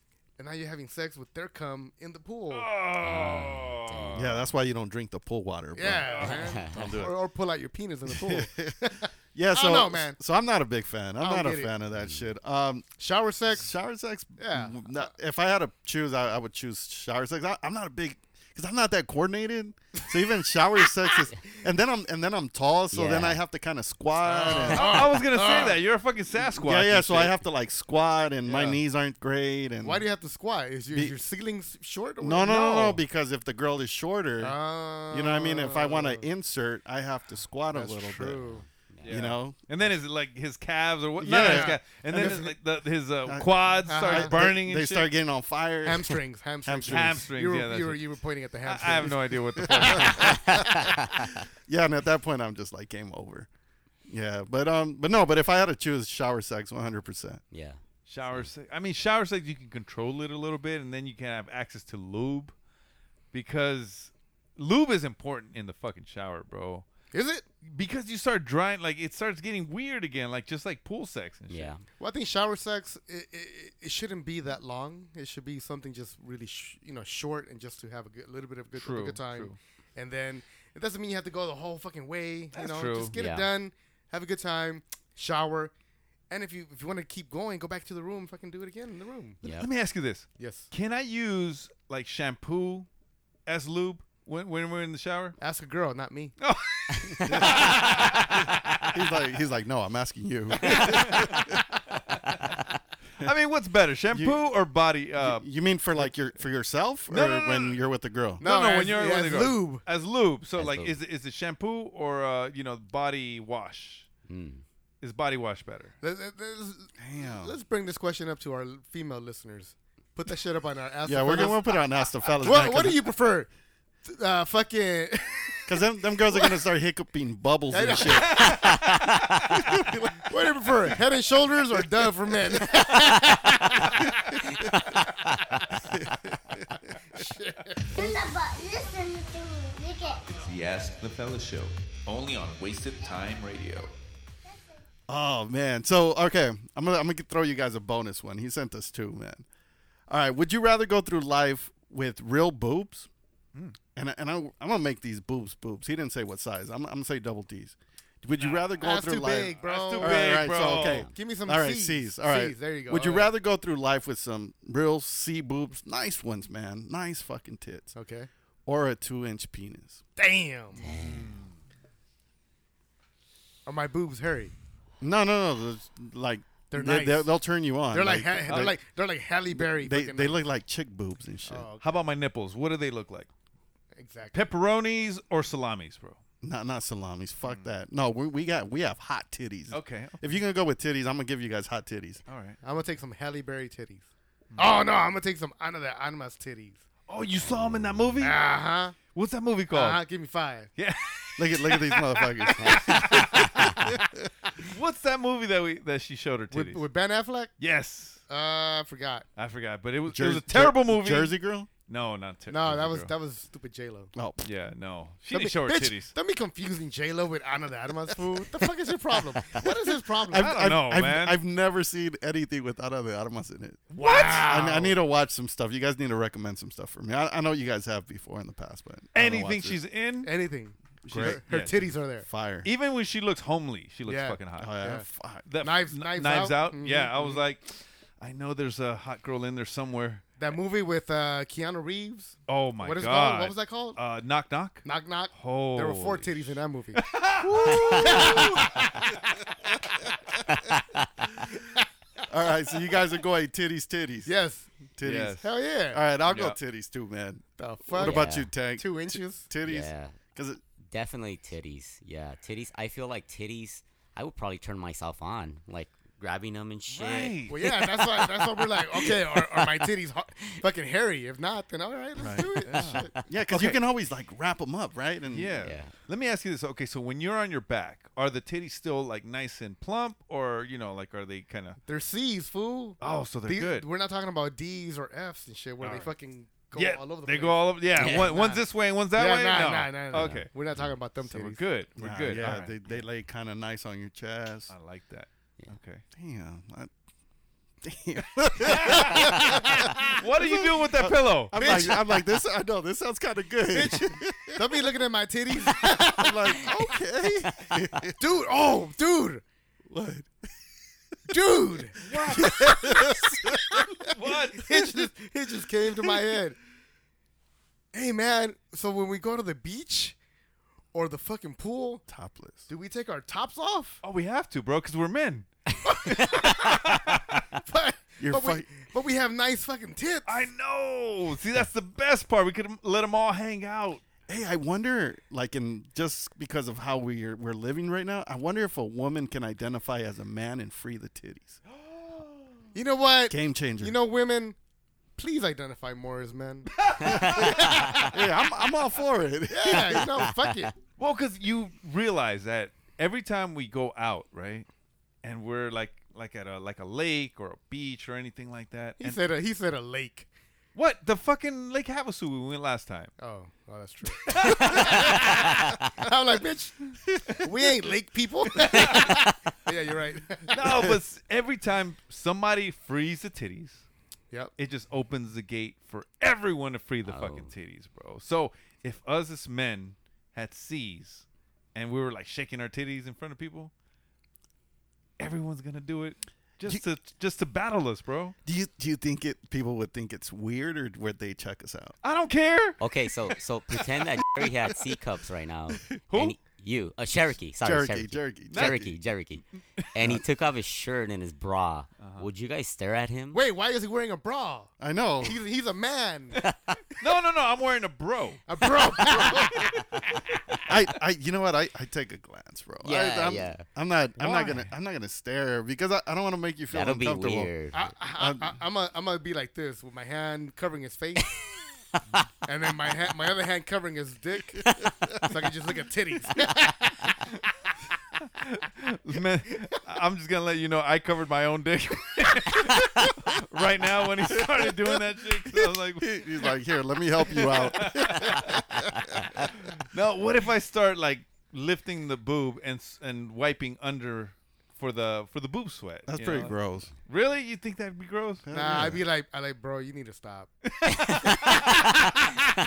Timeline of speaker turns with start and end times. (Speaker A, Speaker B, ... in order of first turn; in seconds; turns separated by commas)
Speaker A: 0.4-2.7, Speaker B: 2.5-4.4, Speaker C: 3.0-4.3, Speaker D: 4.1-7.2, Speaker A: 5.7-10.2, Speaker B: 6.0-6.4, Speaker C: 6.2-6.8, Speaker D: 8.1-12.9, Speaker A: 11.2-11.7, Speaker C: 11.9-12.3, Speaker A: 13.0-13.7, Speaker D: 13.5-25.1, Speaker A: 14.4-15.1, Speaker C: 22.9-23.4, Speaker A: 24.2-25.8, Speaker B: 24.6-27.4, Speaker D: 26.4-30.1, Speaker B: 28.5-28.8, Speaker A: 29.8-33.0, Speaker D: 32.2-34.6, Speaker A: 34.4-36.2, Speaker D: 35.1-39.6, Speaker A: 37.7-38.6, Speaker C: 38.9-39.2, Speaker B: 39.0-45.1, Speaker D: 41.2-42.5, Speaker A: 41.3-42.5, Speaker D: 43.2-47.3, Speaker A: 43.9-44.4, Speaker A: 45.8-50.4, Speaker B: 46.9-48.0, Speaker B: 48.6-50.4, Speaker D: 49.7-50.6, Speaker C: 50.2-51.2, Speaker D: 51.6-53.5, Speaker D: 54.1-57.4, Speaker C: 57.5-58.5, Speaker B: 58.1-62.5, Speaker B: 63.3-66.8, Speaker A: 67.1-67.5, Speaker B: 67.6-71.7, Speaker C: 71.5-71.8, Speaker A: 72.0-85.7, Speaker B: 78.7-79.6, Speaker B: 82.5-83.1, Speaker C: 83.2-83.5, Speaker A: 86.3-89.4, Speaker C: 89.4-89.7, Speaker B: 89.5-92.9, Speaker A: 90.4-90.7, Speaker B: 93.5-95.4, Speaker A: 95.4-96.3, Speaker B: 96.4-98.4, Speaker C: 97.0-97.3, Speaker D: 97.3-97.8, Speaker D: 98.9-101.6, Speaker B: 100.6-101.4, Speaker B: 103.2-105.5, Speaker D: 104.1-104.4, Speaker D: 105.2-108.4, Speaker B: 107.1-107.8, Speaker B: 108.4-114.1, Speaker A: 108.4-109.8, Speaker C: 110.6-111.0, Speaker C: 114.3-114.6, Speaker B: 115.0-115.9, Speaker A: 116.0-121.8, Speaker D: 117.0-117.5, Speaker D: 121.0-123.1, Speaker A: 122.4-123.5, Speaker A: 124.0-126.6, Speaker D: 125.7-128.6, Speaker A: 127.7-128.6, Speaker B: 128.1-129.1, Speaker C: 128.4-129.5, Speaker D: 129.5-130.3, Speaker A: 130.3-134.1, Speaker C: 134.9-135.6, Speaker D: 135.9-136.7, Speaker A: 137.1-138.1, Speaker E: 137.9-140.2, Speaker F: 140.3-143.9, Speaker D: 145.1-149.4, Speaker D: 150.1-153.1, Speaker D: 153.9-167.9, Speaker B: 158.4-158.8, Speaker A: 158.8-160.6, Speaker B: 159.6-161.1, Speaker A: 161.1-163.3, Speaker A: 167.9-168.3, Speaker D: 168.7-170.0, Speaker A: 170.2-170.8, Speaker C: 170.8-171.4, Speaker B: 170.9-171.5, Speaker A: 173.7-174.5, Speaker D: 175.0-178.8, Speaker A: 176.7-177.3, Speaker A: 177.9-180.4, Speaker B: 178.5-178.8, Speaker D: 179.5-181.7, Speaker A: 181.5-181.8, Speaker B: 181.8-183.3, Speaker A: 183.9-184.4, Speaker B: 184.3-186.2, Speaker D: 186.4-192.2, Speaker B: 187.4-187.7, Speaker B: 189.7-190.3, Speaker B: 192.3-192.6, Speaker A: 192.6-194.1, Speaker A: 194.6-196.8, Speaker B: 197.1-198.4, Speaker A: 198.2-199.0, Speaker B: 199.1-200.0, Speaker A: 199.7-200.7, Speaker B: 200.8-203.8, Speaker D: 201.4-204.2, Speaker B: 204.6-206.8, Speaker A: 206.5-207.5, Speaker B: 207.6-208.2, Speaker A: 208.3-209.3, Speaker B: 209.4-213.1, Speaker D: 210.1-211.7, Speaker A: 212.5-214.1, Speaker D: 214.1-214.4, Speaker B: 214.4-216.1, Speaker A: 215.3-220.6, Speaker D: 220.3-223.9, Speaker B: 220.3-221.4, Speaker B: 223.9-224.9, Speaker A: 224.0-224.7, Speaker D: 224.4-229.8, Speaker B: 229.1-230.3, Speaker A: 230.2-232.3, Speaker D: 231.0-231.4, Speaker B: 231.1-231.9, Speaker D: 232.2-232.7, Speaker B: 232.6-234.7, Speaker A: 234.1-235.1, Speaker D: 234.6-235.5, Speaker B: 235.4-240.2, Speaker A: 235.6-237.4, Speaker A: 240.4-244.0, Speaker B: 242.5-248.8, Speaker A: 244.8-247.0, Speaker D: 247.5-248.7, Speaker A: 247.6-249.0, Speaker C: 250.5-251.1, Speaker D: 252.3-254.3, Speaker A: 254.2-254.7, Speaker D: 255.0-260.6, Speaker B: 255.0-255.4, Speaker A: 255.4-256.0, Speaker B: 256.2-256.6, Speaker A: 257.6-259.5, Speaker C: 258.0-258.5, Speaker C: 259.6-260.1, Speaker C: 260.8-267.7, Speaker B: 266.9-267.6, Speaker A: 267.5-273.1, Speaker C: 268.9-269.4, Speaker D: 272.2-275.7, Speaker B: 272.6-273.8, Speaker B: 275.3-281.8, Speaker C: 275.6-275.9, Speaker A: 281.9-288.6, Speaker B: 283.0-283.9, Speaker B: 285.8-286.1, Speaker B: 286.7-290.5, Speaker C: 288.0-288.3, Speaker A: 289.1-291.6, Speaker C: 290.1-290.4, Speaker B: 291.2-292.7, Speaker D: 292.0-294.7, Speaker B: 294.7-296.0, Speaker D: 296.1-296.9, Speaker D: 297.8-304.9, Speaker B: 298.6-299.4, Speaker A: 299.4-300.1, Speaker B: 300.1-301.5, Speaker A: 301.5-302.2, Speaker A: 303.7-306.7, Speaker D: 306.1-308.2, Speaker A: 308.2-309.4, Speaker D: 309.9-310.3, Speaker A: 311.3-312.7, Speaker B: 312.0-312.6, Speaker D: 312.2-313.9, Speaker B: 314.0-314.7, Speaker A: 314.5-316.6, Speaker A: 317.9-320.1, Speaker A: 320.9-322.0, Speaker D: 322.1-322.7, Speaker A: 322.7-324.0, Speaker B: 324.0-325.5, Speaker B: 326.0-327.4, Speaker A: 326.1-326.8, Speaker A: 327.6-330.4, Speaker D: 328.2-328.7, Speaker B: 330.2-334.0, Speaker D: 334.3-341.6, Speaker B: 341.7-342.6, Speaker A: 342.7-344.6, Speaker D: 343.3-344.0, Speaker A: 345.2-348.1, Speaker B: 346.8-347.7, Speaker D: 347.1-350.2, Speaker A: 349.5-350.7, Speaker B: 351.0-354.7, Speaker B: 355.2-359.2, Speaker A: 359.0-360.3, Speaker B: 360.7-363.1, Speaker A: 363.2-370.9, Speaker B: 364.3-365.1, Speaker C: 365.1-365.8, Speaker B: 368.7-369.1, Speaker C: 368.9-369.2, Speaker B: 370.5-373.8, Speaker D: 370.6-370.9, Speaker B: 374.6-383.7, Speaker C: 377.0-377.5, Speaker B: 385.2-388.3, Speaker D: 388.4-391.9, Speaker B: 392.0-392.8, Speaker C: 392.8-403.4, Speaker B: 396.1-396.4, Speaker D: 397.6-398.9, Speaker B: 398.5-398.8, Speaker B: 402.0-402.3, Speaker A: 403.3-406.4, Speaker D: 404.8-405.4, Speaker C: 406.4-406.8, Speaker B: 407.0-408.4, Speaker A: 408.5-409.7, Speaker C: 409.1-409.4, Speaker D: 410.7-417.5, Speaker C: 412.8-413.6, Speaker B: 414.2-414.7, Speaker C: 416.7-417.9, Speaker A: 417.7-421.3, Speaker D: 418.1-418.6, Speaker A: 422.4-424.7, Speaker A: 425.2-427.1, Speaker B: 428.4-436.3, Speaker D: 434.3-435.0, Speaker D: 435.5-439.5, Speaker B: 437.3-438.6, Speaker B: 439.6-448.4, Speaker D: 446.1-446.9, Speaker D: 448.4-449.0, Speaker A: 448.5-450.5, Speaker C: 450.9-452.0